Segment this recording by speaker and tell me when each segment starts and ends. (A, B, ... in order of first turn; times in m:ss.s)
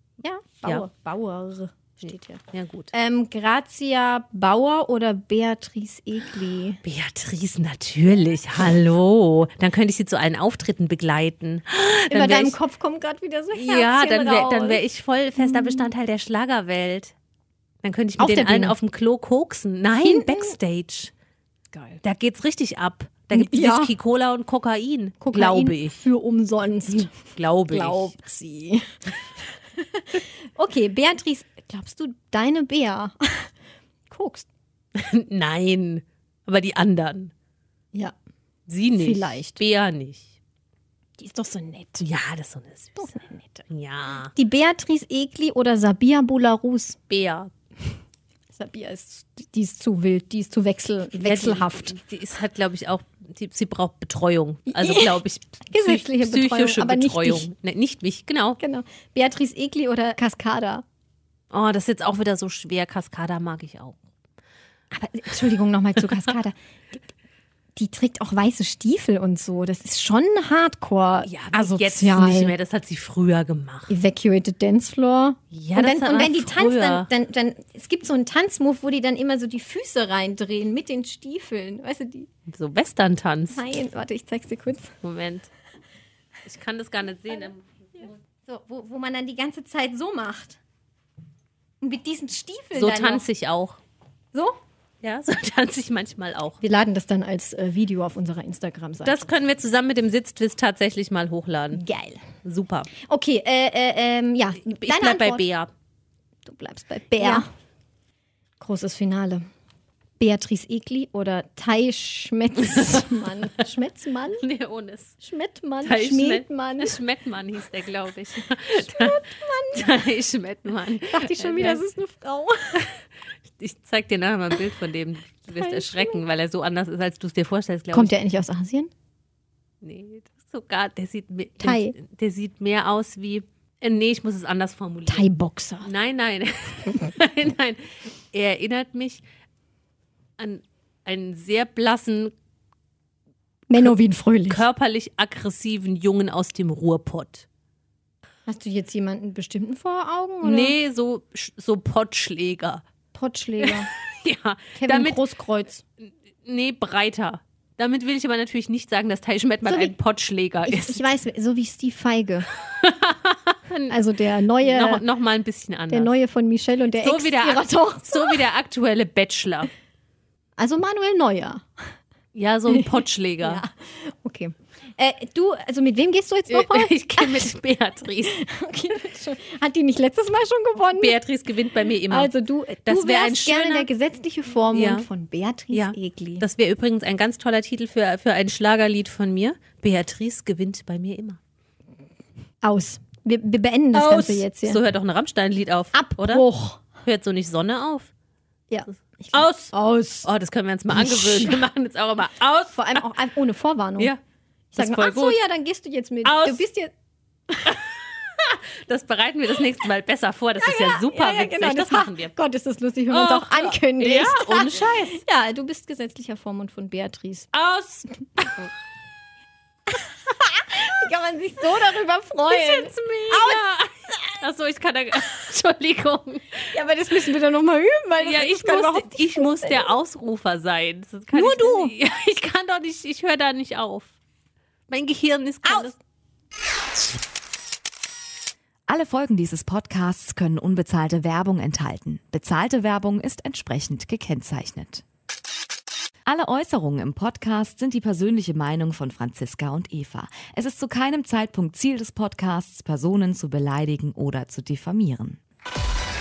0:00.2-0:02.4 A
0:02.1-0:02.9 B
0:02.9-0:06.8 A
0:06.8-0:12.5 B
0:12.1-0:14.8 A
0:13.5-0:17.1 B
0:15.4-0:15.9 A
0:17.8-0:21.1 B
0:18.2-0:18.8 A
0:20.0-0:20.6 A
0:21.7-0:22.0 A
0:22.0-0:26.0 B
0:23.3-0:23.9 A
0:25.2-0:29.0 A
0:26.9-0:28.1 B
0:29.7-0:33.5 A
0:34.1-0:34.5 A
0:34.9-0:37.3 B
0:38.7-0:40.3 B
0:39.0-0:39.6 A
0:41.2-0:42.0 A
0:42.0-0:44.3 B
0:43.0-0:43.6 A
0:44.3-0:47.0 A
0:47.1-0:47.5 B
0:48.5-0:52.0 A
0:51.2-0:58.6 B
0:54.7-0:55.2 A
0:55.7-0:57.5 A
0:58.6-1:00.8 A
1:01.5-1:04.0 B
1:04.9-1:06.6 A
1:07.7-1:12.5 A
1:11.2-1:14.0 B
1:13.9-1:22.3 A
1:15.5-1:17.1 B
1:22.5-1:23.6 B
1:23.5-1:25.0 A
1:25.0-1:25.5 B
1:26.4-1:27.6 B
1:28.4-1:30.6 A
1:31.8-1:33.2 A
1:32.7-1:33.8 B
1:34.3-1:34.6 A
1:35.0-1:36.6 B
1:36.6-1:39.3 A
1:39.0-1:41.8 B
1:41.7-1:42.2 A
1:42.4-1:42.9 B
1:42.9-1:45.4 A
1:44.6-1:45.7 B
1:46.4-1:47.5 A
1:47.2-1:47.4 B
1:48.6-1:49.5 A
1:50.2-1:54.4 A
1:54.4-1:55.2 B
1:55.2-1:57.0 A
1:55.8-2:01.8 B
1:58.7-2:00.0 A
2:01.0-2:02.8 A
2:03.6-2:08.1 B
2:05.5-2:06.2 A
2:07.9-2:08.9 A
2:09.8-2:15.3 B
2:11.6-2:11.9 A
2:15.1-2:15.9 A
2:15.8-2:19.2 B
2:20.4-2:22.3 B
2:23.7-2:24.6 A
2:24.5-2:27.4 B
2:28.4-2:30.7 A
2:30.4-2:32.8 B
2:33.1-2:33.9 A
2:33.6-2:35.2 B
2:34.8-2:35.8 A
2:36.0-2:41.1 B
2:39.6-2:40.0 A
2:40.7-2:42.5 A
2:42.7-2:44.0 B
2:43.9-2:45.0 A
2:44.6-2:46.1 B
2:45.9-2:48.4 A
2:47.0-2:49.7 B
2:50.6-2:51.8 A
2:52.3-2:53.6 B
2:53.4-2:57.5 A
2:56.5-2:58.4 B
2:58.3-3:01.2 A
3:01.0-3:02.3 B
3:02.1-3:06.4 A
3:02.8-3:03.9 B
3:04.7-3:05.0 B
3:05.7-3:11.4 B
3:12.6-3:14.8 A
3:13.9-3:16.4 B
3:15.9-3:16.8 A
3:17.0-3:18.1 B
3:18.7-3:20.3 A
3:19.3-3:19.7 B
3:20.2-3:23.0 B
3:20.9-3:21.6 A
3:22.7-3:24.1 A
3:24.7-3:26.9 A
3:24.8-3:25.4 B
3:26.2-3:26.6 B
3:27.5-3:27.8 A
3:27.6-3:32.3 B
3:30.6-3:37.5 A
3:33.1-3:35.2 B
3:37.5-3:38.7 B
3:39.9-3:43.6 A
3:42.5-3:46.7 B
3:46.7-3:49.9 A
3:48.2-3:54.1 B
3:51.3-3:51.9 A
3:54.9-3:56.0 B
3:58.9-4:05.0 C
4:06.2-4:15.4 C